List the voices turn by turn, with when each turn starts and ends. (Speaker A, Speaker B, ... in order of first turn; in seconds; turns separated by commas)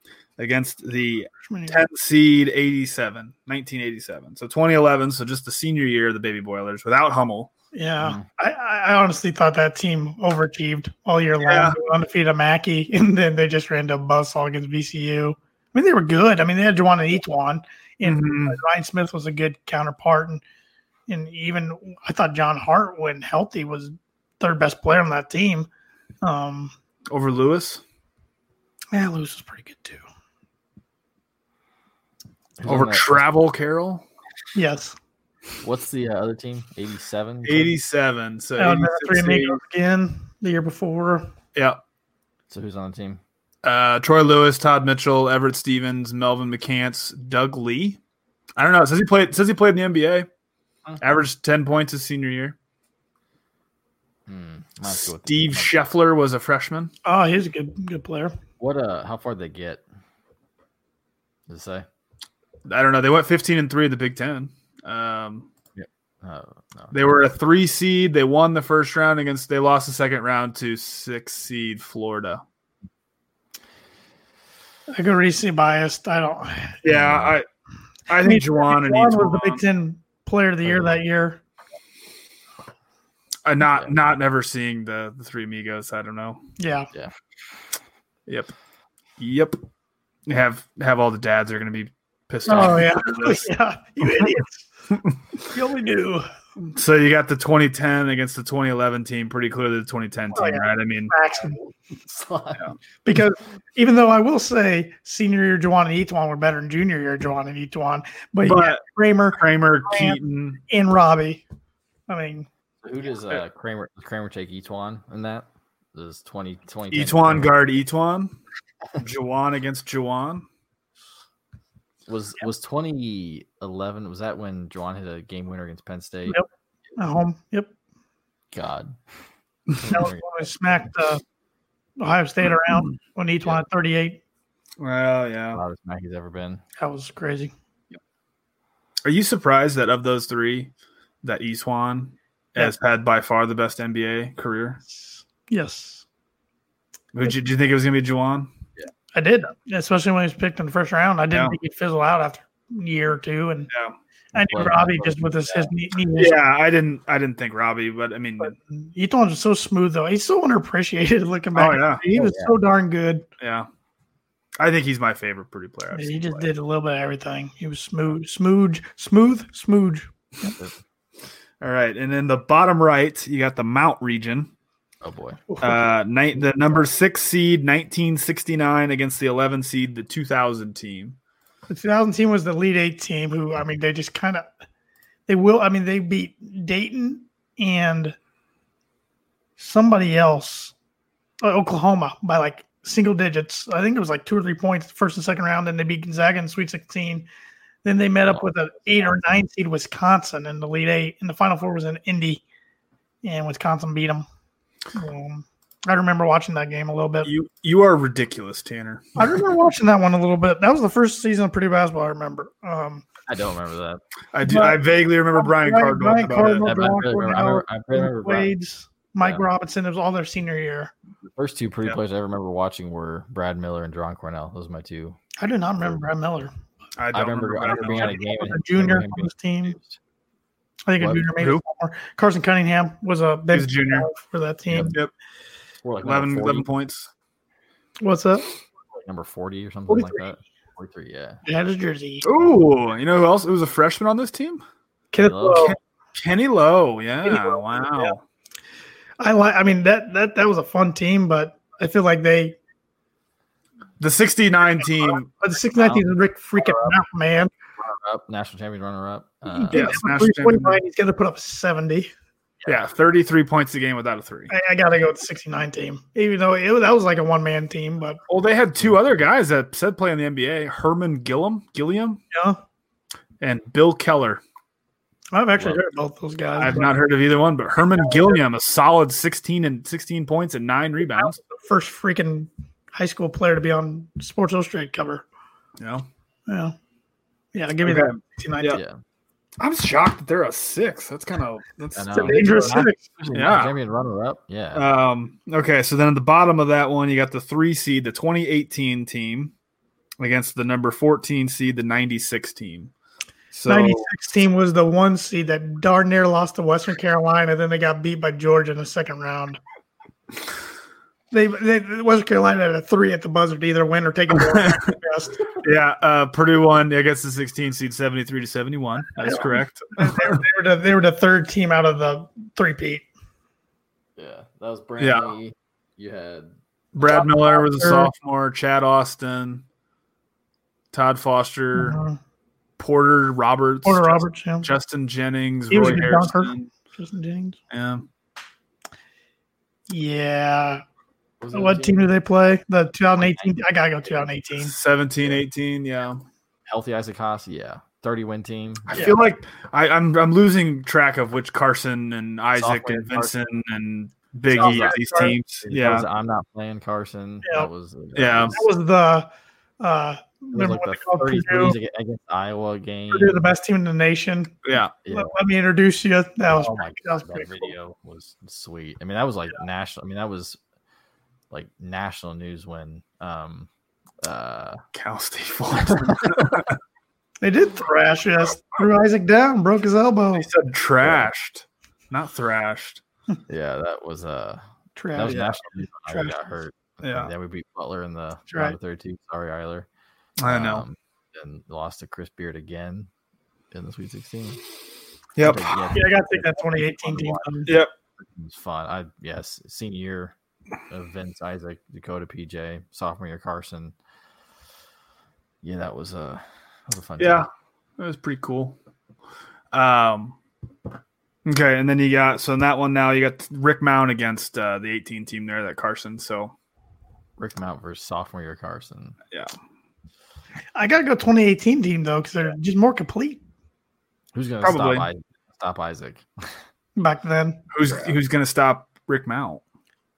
Speaker A: 0.4-7.5, Speaker B: 1.5-1.8, Speaker B: 7.7-20.4, Speaker C: 8.0-8.3, Speaker A: 11.4-11.8, Speaker A: 18.0-18.6, Speaker B: 21.1-25.7, Speaker B: 26.2-26.7, Speaker A: 27.1-27.8, Speaker B: 28.9-30.0, Speaker C: 32.6-33.2, Speaker A: 32.7-34.0, Speaker B: 34.5-35.0, Speaker C: 35.6-37.7, Speaker A: 37.5-39.6, Speaker B: 38.6-41.3, Speaker C: 42.5-43.2, Speaker A: 43.6-48.0, Speaker A: 48.6-50.3, Speaker A: 51.0-52.6, Speaker C: 54.3-55.7, Speaker A: 54.9-56.9, Speaker B: 57.0-58.4, Speaker C: 58.6-59.8, Speaker C: 61.5-61.9, Speaker A: 62.7-65.5, Speaker C: 65.8-67.0, Speaker A: 66.9-72.4, Speaker B: 74.9-76.8, Speaker A: 76.8-77.5, Speaker C: 76.8-77.4, Speaker A: 78.1-79.6, Speaker B: 78.2-81.4, Speaker C: 80.7-81.0, Speaker A: 83.5-86.4, Speaker C: 83.7-84.1, Speaker B: 86.6-86.9, Speaker A: 88.3-88.5, Speaker A: 89.2-89.6, Speaker A: 90.3-93.5, Speaker B: 92.5-94.7, Speaker A: 94.9-95.2, Speaker B: 95.5-96.3, Speaker A: 96.7-101.1, Speaker B: 100.3-101.6, Speaker C: 101.3-102.7, Speaker B: 103.0-111.4, Speaker A: 108.4-110.6, Speaker B: 112.1-112.5, Speaker C: 112.8-117.6, Speaker A: 116.9-118.3, Speaker A: 119.0-120.5, Speaker C: 122.1-126.4, Speaker B: 126.3-127.7, Speaker C: 128.5-129.0, Speaker C: 129.8-130.5, Speaker B: 129.9-131.2, Speaker B: 132.0-134.2, Speaker A: 134.8-135.6, Speaker C: 135.5-136.6, Speaker B: 136.8-137.5, Speaker A: 139.1-140.7, Speaker A: 141.2-144.8, Speaker B: 144.9-146.1, Speaker A: 147.1-148.5, Speaker B: 149.1-153.7, Speaker A: 153.7-154.0, Speaker B: 154.3-156.4, Speaker C: 154.3-155.7, Speaker A: 156.2-158.6, Speaker B: 158.4-163.2, Speaker A: 161.6-162.0, Speaker C: 162.1-162.6, Speaker A: 163.4-163.7, Speaker A: 164.6-166.5, Speaker B: 165.9-170.5, Speaker C: 170.5-170.8, Speaker A: 171.6-174.5, Speaker C: 175.0-175.4, Speaker B: 175.5-175.8, Speaker A: 175.6-181.2, Speaker B: 181.7-184.5, Speaker B: 185.3-188.2, Speaker B: 189.6-190.7, Speaker B: 191.4-197.3, Speaker B: 197.8-202.4, Speaker C: 198.3-199.3, Speaker B: 203.2-204.3, Speaker B: 204.9-207.3, Speaker A: 207.2-209.2, Speaker B: 209.2-213.1, Speaker C: 213.3-214.0, Speaker A: 214.3-216.8, Speaker B: 214.4-214.8, Speaker B: 215.3-220.9, Speaker C: 216.6-218.5, Speaker C: 219.2-219.5, Speaker C: 221.2-225.2, Speaker B: 225.4-226.5, Speaker A: 227.0-228.2, Speaker C: 227.1-230.0, Speaker B: 227.7-229.8, Speaker B: 230.9-235.0, Speaker C: 231.0-231.3, Speaker A: 233.5-234.1, Speaker C: 234.7-234.9, Speaker A: 234.8-235.1, Speaker C: 235.8-236.7, Speaker A: 236.0-237.1, Speaker B: 238.0-238.5, Speaker C: 239.1-241.4, Speaker B: 239.9-240.3, Speaker B: 241.4-242.3, Speaker A: 242.2-244.6, Speaker C: 242.3-242.6, Speaker B: 245.1-245.8, Speaker C: 245.2-245.8, Speaker A: 245.6-248.2, Speaker B: 247.2-248.2, Speaker B: 249.2-252.6, Speaker A: 254.0-255.3, Speaker B: 255.0-257.5, Speaker C: 255.8-257.0, Speaker C: 257.8-260.0, Speaker B: 259.5-262.1, Speaker A: 259.7-260.8, Speaker C: 262.6-262.9, Speaker A: 262.7-264.5, Speaker B: 264.5-268.2, Speaker A: 268.3-272.2, Speaker B: 272.3-272.6, Speaker A: 273.4-274.4, Speaker B: 275.3-276.9, Speaker C: 275.6-275.8, Speaker A: 276.6-281.4, Speaker B: 281.2-285.2, Speaker A: 285.8-286.1, Speaker B: 286.5-286.8, Speaker B: 287.5-288.8, Speaker A: 287.8-288.8, Speaker C: 288.7-289.0, Speaker A: 289.6-292.5, Speaker C: 291.9-294.9, Speaker B: 292.1-293.0, Speaker A: 293.3-293.7, Speaker A: 294.8-299.5, Speaker A: 300.2-302.9, Speaker A: 303.5-304.1, Speaker B: 303.7-309.6, Speaker B: 311.3-315.6, Speaker A: 314.4-314.8, Speaker A: 315.6-320.4, Speaker B: 319.2-323.1, Speaker C: 324.2-326.6, Speaker A: 325.0-325.3, Speaker A: 326.9-329.6, Speaker B: 327.0-328.1, Speaker A: 330.9-332.0, Speaker B: 331.8-332.2, Speaker A: 332.8-336.7, Speaker B: 333.9-334.7, Speaker B: 335.7-337.6, Speaker A: 337.7-338.1, Speaker B: 339.9-340.8, Speaker C: 341.4-342.1, Speaker B: 341.5-344.7, Speaker C: 343.2-343.6, Speaker A: 344.6-346.2, Speaker C: 346.7-349.1, Speaker A: 348.9-356.1, Speaker C: 352.6-353.6, Speaker C: 354.5-358.6, Speaker B: 354.6-355.4, Speaker B: 357.4-357.7, Speaker A: 358.1-358.6, Speaker B: 358.5-361.8, Speaker C: 360.5-363.5, Speaker B: 363.1-364.6, Speaker A: 364.6-364.9, Speaker C: 365.0-365.4, Speaker B: 365.1-367.7, Speaker C: 366.5-370.6, Speaker C: 371.5-373.7, Speaker C: 374.2-374.8, Speaker A: 374.9-376.8, Speaker C: 375.8-376.6, Speaker B: 377.4-380.5, Speaker A: 380.4-383.0, Speaker C: 381.0-381.3, Speaker C: 383.5-389.9, Speaker B: 385.0-385.5, Speaker A: 385.3-385.6, Speaker B: 386.1-386.3, Speaker A: 387.0-387.3, Speaker B: 388.5-388.8, Speaker A: 390.4-390.8, Speaker C: 390.4-393.1, Speaker C: 393.7-394.6, Speaker A: 395.4-395.8, Speaker C: 395.4-400.4, Speaker B: 395.9-397.8, Speaker C: 400.9-403.9, Speaker C: 405.6-407.5, Speaker A: 407.2-408.8, Speaker A: 409.7-410.4, Speaker A: 411.4-416.5, Speaker C: 417.4-419.2, Speaker B: 420.8-423.4, Speaker C: 424.3-426.6, Speaker A: 424.6-425.1, Speaker B: 427.0-427.6, Speaker A: 427.7-429.6, Speaker C: 427.8-428.2